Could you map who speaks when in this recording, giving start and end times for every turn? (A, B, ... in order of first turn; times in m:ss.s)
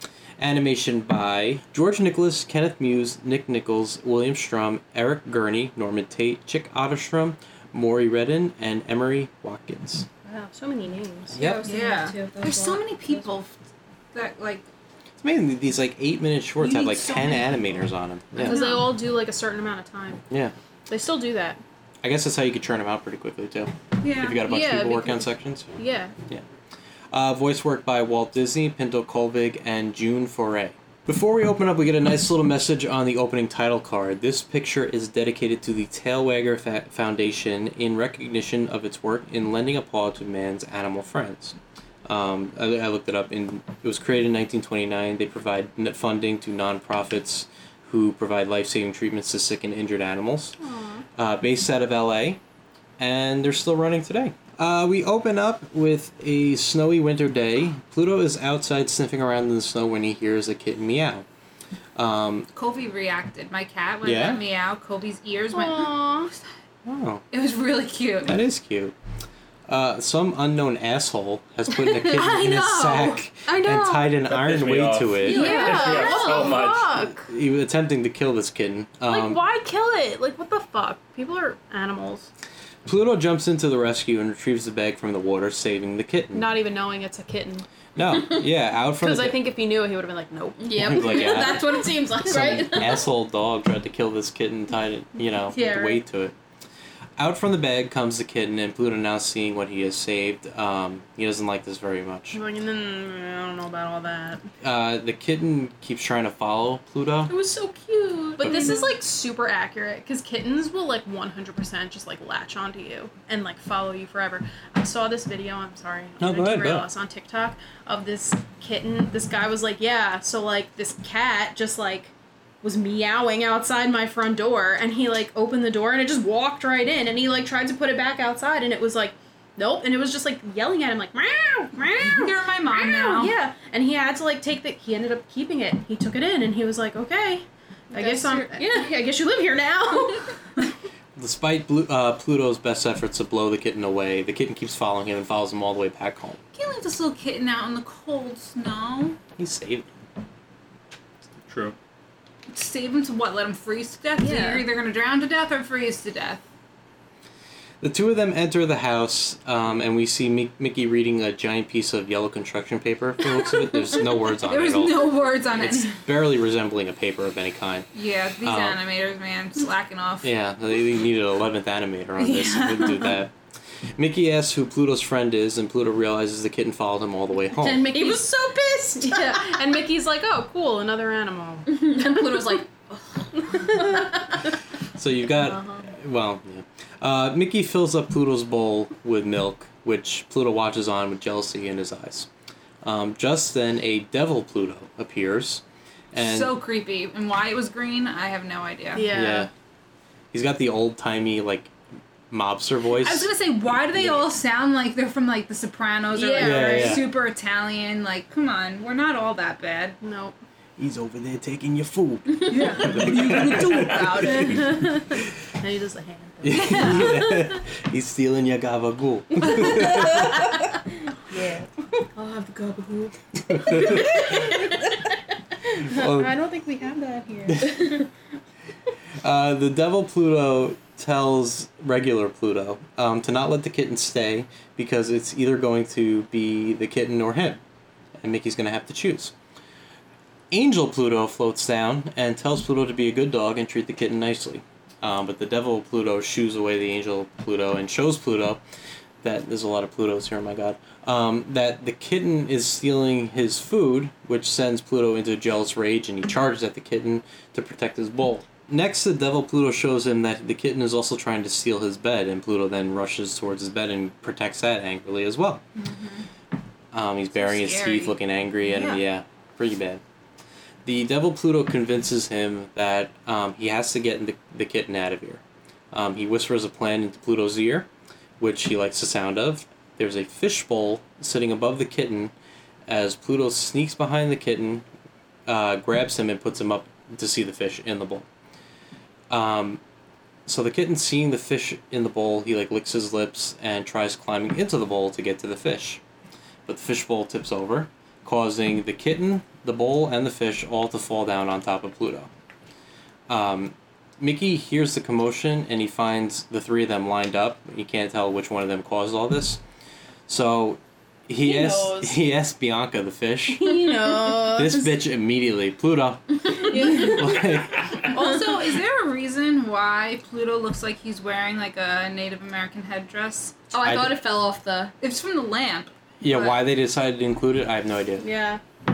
0:00.4-0:10.1 A
0:10.2-0:11.4 B
0:11.3-0:13.3 C
0:11.3-0:11.6 A
0:11.6-0:13.5 D
0:14.1-0:14.7 D
0:15.2-0:18.6 A
0:16.6-0:17.7 D
0:18.4-0:20.2 B
0:18.4-0:19.0 D
0:20.3-0:20.6 A
0:20.9-0:21.6 B
0:22.0-0:25.8 A
0:24.0-0:24.9 D
0:24.5-0:25.1 B
0:25.8-0:26.1 B
0:27.1-0:50.6 A
0:50.6-0:51.0 B
0:51.2-0:52.4 A
0:53.0-1:01.3 A
1:02.0-1:02.5 A
1:02.5-1:06.4 D
1:04.0-1:04.4 A
1:05.5-1:06.3 B
1:06.8-1:07.2 A
1:07.3-1:08.4 D
1:08.2-1:09.0 A
1:09.7-1:15.5 A
1:12.2-1:12.5 B
1:13.5-1:14.0 B
1:14.2-1:17.1 E
1:15.2-1:16.6 C
1:15.3-1:17.2 B
1:15.3-1:16.0 D
1:17.0-1:19.4 A
1:19.1-1:22.3 B
1:22.8-1:26.5 A
1:26.3-1:27.7 B
1:28.0-1:29.4 A
1:29.0-1:32.8 B
1:30.6-1:33.0 C
1:30.7-1:36.4 A
1:35.5-1:36.0 C
1:37.2-1:42.4 A
1:42.3-1:44.5 B
1:44.6-1:47.4 A
1:47.3-2:02.1 B
1:48.4-1:48.8 A
1:56.2-1:56.9 A
2:02.6-2:20.6 B
2:12.0-2:13.4 D
2:17.9-2:19.1 C
2:21.2-2:26.4 A
2:26.5-2:29.2 D
2:29.4-2:29.9 A
2:31.5-2:31.8 E
2:32.5-2:36.4 D
2:34.2-2:34.6 B
2:37.8-2:47.9 A
2:44.4-2:46.0 D
2:47.9-2:50.3 D
2:48.4-2:48.8 A
2:50.2-2:53.3 A
2:52.2-2:53.2 D
2:54.0-2:58.0 A
2:57.6-2:58.3 B
2:57.9-2:59.6 C
2:58.9-3:02.4 B
3:01.7-3:04.0 C
3:03.5-3:04.1 B
3:05.0-3:12.3 A
3:12.8-3:16.5 A
3:16.2-3:19.1 D
3:18.9-3:19.5 B
3:19.1-3:19.5 A
3:20.3-3:21.7 A
3:22.3-3:24.3 A
3:22.9-3:30.0 D
3:26.1-3:27.1 B
3:26.4-3:27.1 A
3:30.0-3:30.3 B
3:30.8-3:32.7 A
3:32.5-3:34.7 D
3:32.5-3:33.0 B
3:32.8-3:34.5 E
3:34.2-3:37.3 B
3:36.4-3:40.3 A
3:36.5-3:37.2 D
3:39.6-3:40.5 B
3:41.3-3:43.1 B
3:43.6-3:44.9 B
3:45.8-3:48.1 B
3:45.9-3:46.3 A
3:47.5-3:48.0 A
3:49.2-3:57.6 A
3:58.2-3:59.3 A
4:00.5-4:08.6 A
4:09.2-4:25.6 A
4:25.8-4:26.3 D
4:26.9-4:30.0 A
4:27.3-4:29.0 D
4:30.8-4:37.9 A
4:38.4-4:42.3 A
4:42.9-4:44.9 A
4:45.5-4:48.2 A
4:49.3-4:49.8 A
4:50.5-4:56.0 A
4:56.7-5:02.3 A
5:03.3-5:09.6 A
5:10.3-5:18.1 A
5:11.4-5:12.2 B
5:13.5-5:15.0 B
5:13.8-5:14.4 C
5:16.7-5:17.2 B
5:16.7-5:17.4 D
5:18.0-5:23.6 D
5:23.7-5:24.9 C
5:23.8-5:24.2 A
5:25.0-5:26.6 D
5:26.2-5:28.3 A
5:28.2-5:28.6 B